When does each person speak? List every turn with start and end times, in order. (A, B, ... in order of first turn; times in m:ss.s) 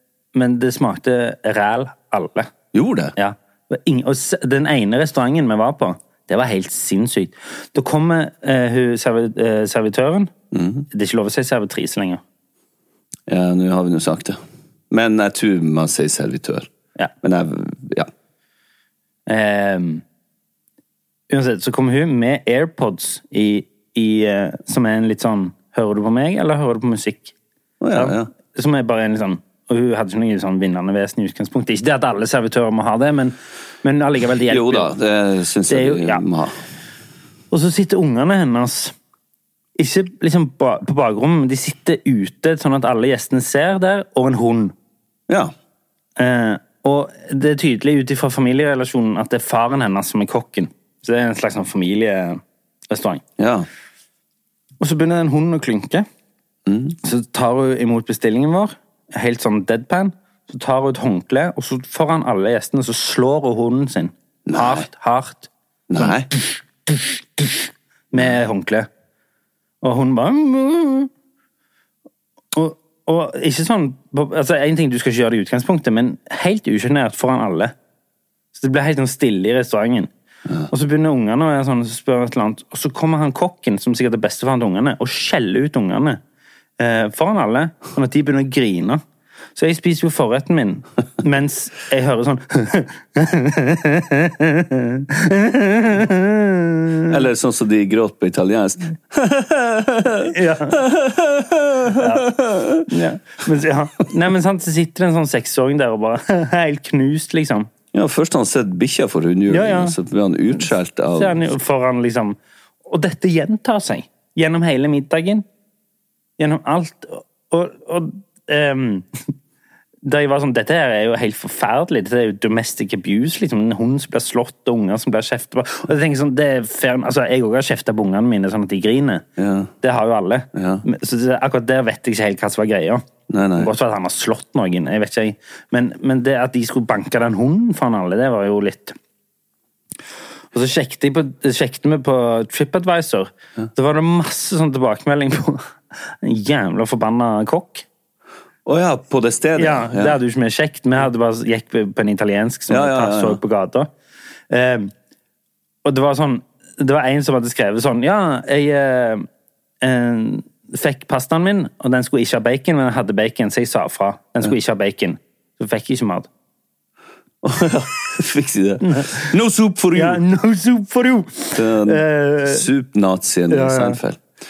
0:00.3-0:02.5 A
0:02.7-0:03.2 B
0:03.2-0:10.3 A
0:10.5-0:10.9 B
0:10.9-0:12.2 A
0:13.3-0:14.4 B
0:14.9-0:16.7 B
0:17.2-0:18.1 B
0:19.3-0:20.0 A
0:21.3-0:27.3 A
0:27.8-0:28.3 B
0:27.9-0:34.9 A
0:34.5-0:36.6 B
0:35.7-0:36.2 A
0:37.5-0:39.0 A
0:39.8-0:44.7 A
0:46.2-0:53.2 A
0:53.4-0:53.7 B
0:54.8-0:56.1 A
0:56.7-0:57.0 B
0:57.0-1:05.5 A
1:04.5-1:04.9 B
1:05.9-1:06.3 B
1:06.0-1:07.6 A
1:08.1-1:08.9 A
1:09.8-1:11.1 A
1:12.5-1:17.7 A
1:18.6-1:20.1 A
1:20.7-1:26.2 A
1:26.8-1:29.0 A
1:29.6-1:37.2 A
1:37.1-1:42.9 B
1:40.2-1:40.8 A
1:42.0-1:42.3 A
1:42.9-1:47.7 A
1:47.9-1:51.5 B
1:49.5-1:50.0 A
1:51.2-1:55.4 A
1:56.4-1:59.3 A
2:00.0-2:09.3 A
2:09.4-2:09.7 B
2:09.8-2:19.0 A
2:10.5-2:10.8 B
2:13.3-2:13.7 B
2:20.5-2:27.8 A
2:28.7-2:30.2 B
2:29.6-2:33.9 A
2:32.7-2:33.4 B
2:34.5-2:34.9 A
2:35.8-2:39.3 A
2:39.8-2:46.3 A
2:47.4-2:50.2 B
2:48.8-2:49.3 A
2:49.9-2:52.6 A
2:51.6-2:54.2 B
2:53.5-2:54.0 A